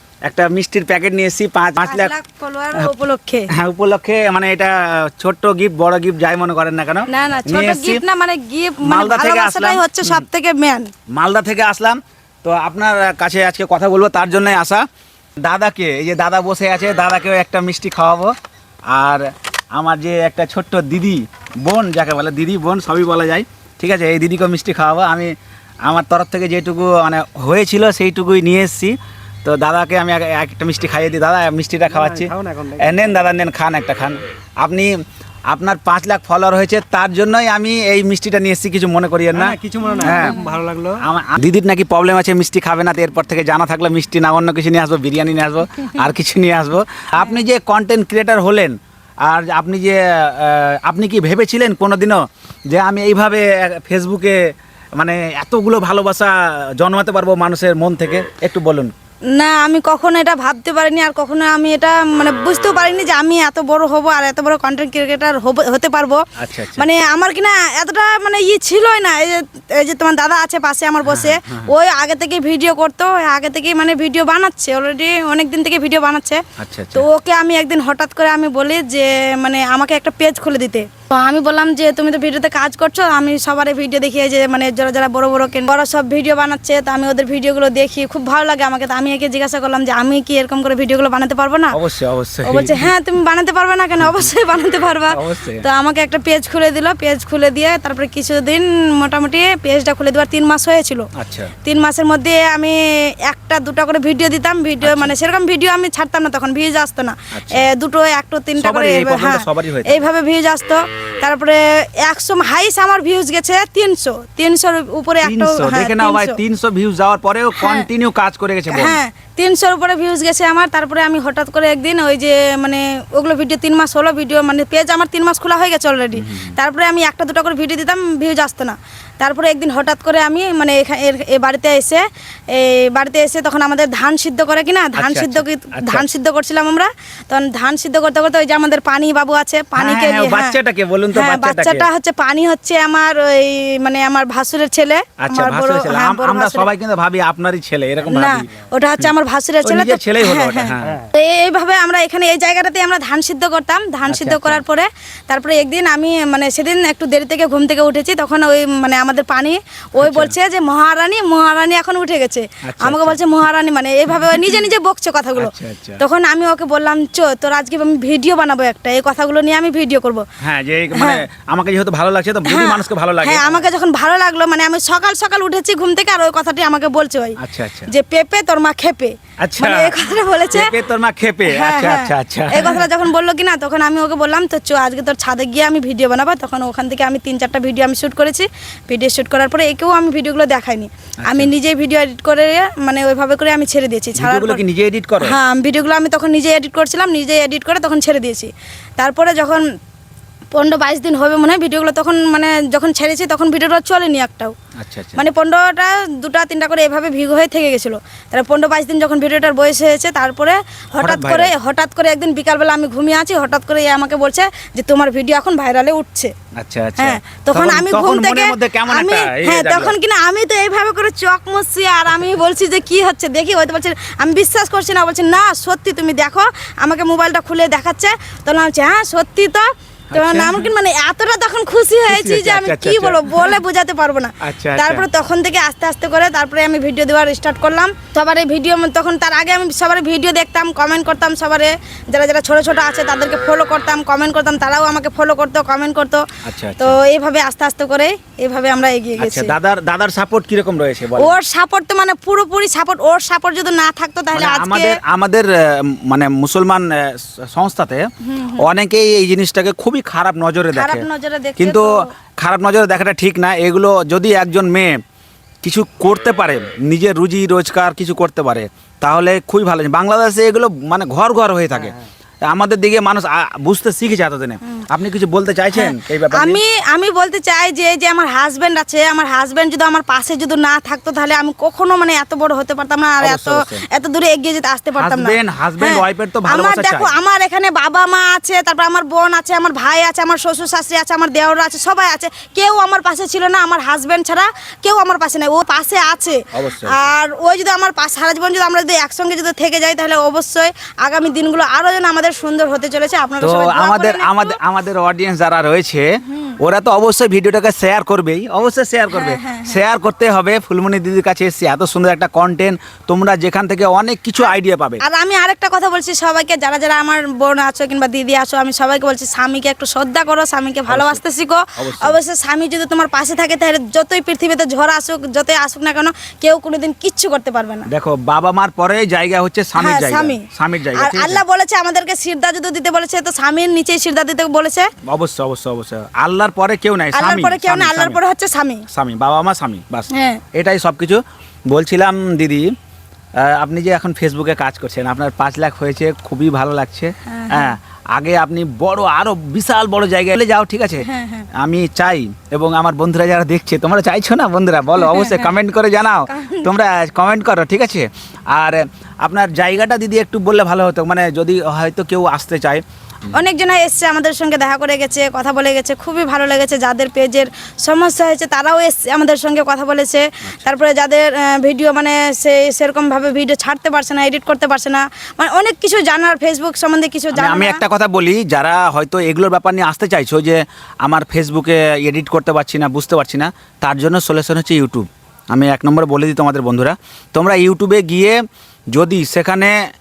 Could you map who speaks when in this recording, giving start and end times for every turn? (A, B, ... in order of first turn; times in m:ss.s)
0:00.3-0:02.1 A
0:01.8-0:03.5 B
0:03.5-0:08.0 A
0:07.1-0:10.9 B
0:08.8-0:10.2 A
0:11.1-0:14.8 A
0:15.4-0:18.3 A
0:18.9-0:25.3 A
0:25.8-0:35.0 A
0:31.9-0:33.0 C
0:35.5-0:40.4 A
0:39.3-0:41.0 C
0:39.8-0:40.5 B
0:41.0-0:58.9 A
0:59.3-1:16.4 B
1:06.4-1:06.9 A
1:11.0-1:11.7 A
1:16.6-1:17.0 A
1:16.9-1:31.8 B
1:31.7-1:32.9 A
1:32.4-1:41.1 B
1:35.1-1:35.6 A
1:41.1-1:41.5 A
1:41.6-1:56.4 B
1:44.8-1:45.1 A
1:47.3-1:47.6 A
1:48.6-1:50.1 A
1:55.2-1:59.0 A
1:57.6-1:57.9 B
1:58.7-2:20.6 B
2:06.1-2:06.5 A
2:15.0-2:16.0 A
2:19.8-2:21.9 A
2:21.1-2:26.7 B
2:25.2-2:28.5 A
2:28.0-2:50.2 B
2:29.6-2:31.0 A
2:30.8-2:31.1 C
2:34.1-2:34.6 A
2:40.0-2:40.3 A
2:42.6-2:43.2 A
2:45.4-2:46.0 A
2:50.4-2:53.6 A
2:50.9-2:51.2 B
2:52.5-2:57.4 B
2:57.4-2:57.9 A
2:57.9-3:00.7 B
2:59.4-2:59.9 A
3:00.5-3:02.8 A
3:01.4-3:14.6 B
3:11.2-3:11.5 A
3:14.2-3:15.3 A
3:15.2-3:19.6 B
3:20.5-3:24.5 B
3:24.8-3:25.2 A
3:25.2-3:36.3 B
3:31.0-3:31.5 A
3:36.6-3:39.9 A
3:37.0-4:06.2 B
3:50.1-3:50.7 A
3:52.1-3:53.6 A
3:54.4-3:55.0 A
4:06.4-4:07.0 A
4:06.8-4:09.5 B
4:09.2-4:11.3 A
4:11.2-4:15.0 B
4:14.3-4:21.0 A
4:18.2-4:18.6 B
4:20.7-4:22.1 B
4:21.6-4:25.0 A
4:25.6-4:36.6 A
4:35.7-5:04.6 B
4:43.2-4:43.8 A
4:45.0-4:47.1 A
4:56.5-4:57.0 A
5:03.4-5:06.0 A
5:06.3-5:06.5 B
5:06.6-5:15.0 A
5:09.1-5:09.8 B
5:14.4-5:27.9 B
5:20.9-5:21.2 A
5:21.8-5:22.2 A
5:27.9-5:31.4 A
5:29.8-5:34.9 B
5:35.0-5:38.2 A
5:37.1-5:38.8 B
5:38.9-5:42.7 A
5:40.1-5:40.4 B
5:43.4-6:02.8 A
5:47.2-5:47.7 B
5:51.0-5:51.5 B
5:55.0-5:55.5 B
5:56.3-5:56.7 B
6:03.3-6:17.8 B
6:17.3-6:28.4 A
6:28.9-6:29.9 A